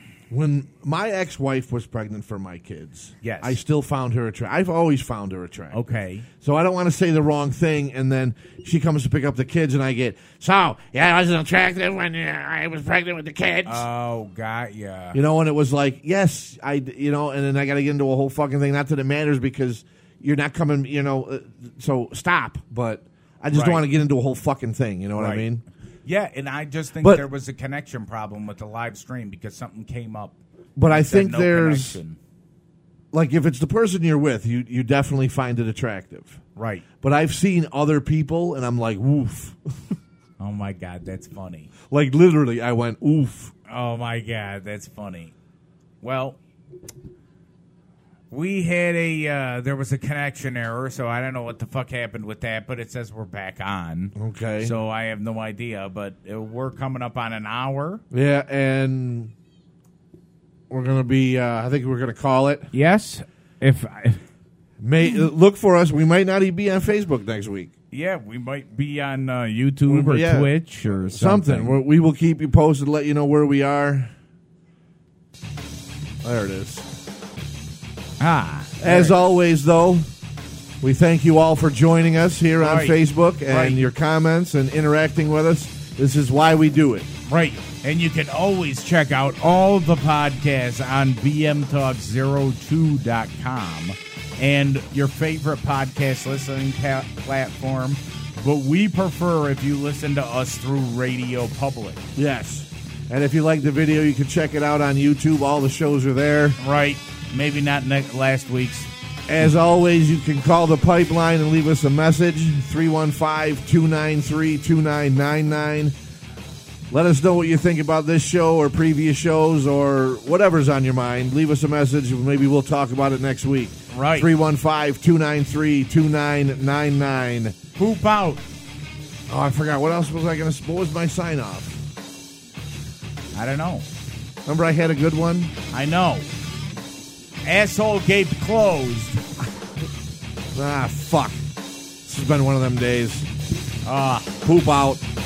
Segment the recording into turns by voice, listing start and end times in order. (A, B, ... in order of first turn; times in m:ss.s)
0:00.3-0:05.8 A
0:03.2-0:03.6 B
0:05.7-0:06.3 B
0:06.4-0:13.9 A
0:13.6-0:15.2 B
0:15.1-0:25.6 A
0:23.5-0:23.8 B
0:25.1-0:25.5 B
0:26.0-0:32.2 B
0:27.0-0:27.2 A
0:30.8-0:32.0 A
0:33.1-0:36.4 A
0:36.6-0:36.8 B
0:37.0-0:39.6 A
0:40.4-0:41.7 B
0:41.9-0:43.5 A
0:43.7-0:45.3 B
0:46.0-0:46.4 B
0:48.3-0:58.0 B
0:54.2-0:54.7 A
0:58.1-0:59.3 A
1:00.7-1:02.7 A
1:02.7-1:04.2 B
1:04.8-1:07.7 A
1:07.9-1:11.8 B
1:09.8-1:10.5 A
1:11.1-1:14.1 A
1:16.2-1:16.9 A
1:18.2-1:19.2 B
1:18.8-1:20.1 A
1:20.8-1:27.1 A
1:22.6-1:23.8 B
1:27.2-1:42.0 B
1:42.1-1:46.6 A
1:46.6-1:48.9 B
1:49.3-1:55.9 A
1:56.9-2:07.6 A
2:03.9-2:04.3 B
2:07.8-2:08.4 B
2:09.3-2:11.8 A
2:13.3-2:13.8 B
2:14.4-2:15.5 A
2:15.7-2:16.3 B
2:17.4-2:19.2 B
2:20.5-2:21.5 A
2:22.0-2:23.3 A
2:23.8-2:24.4 B
2:24.4-2:25.0 A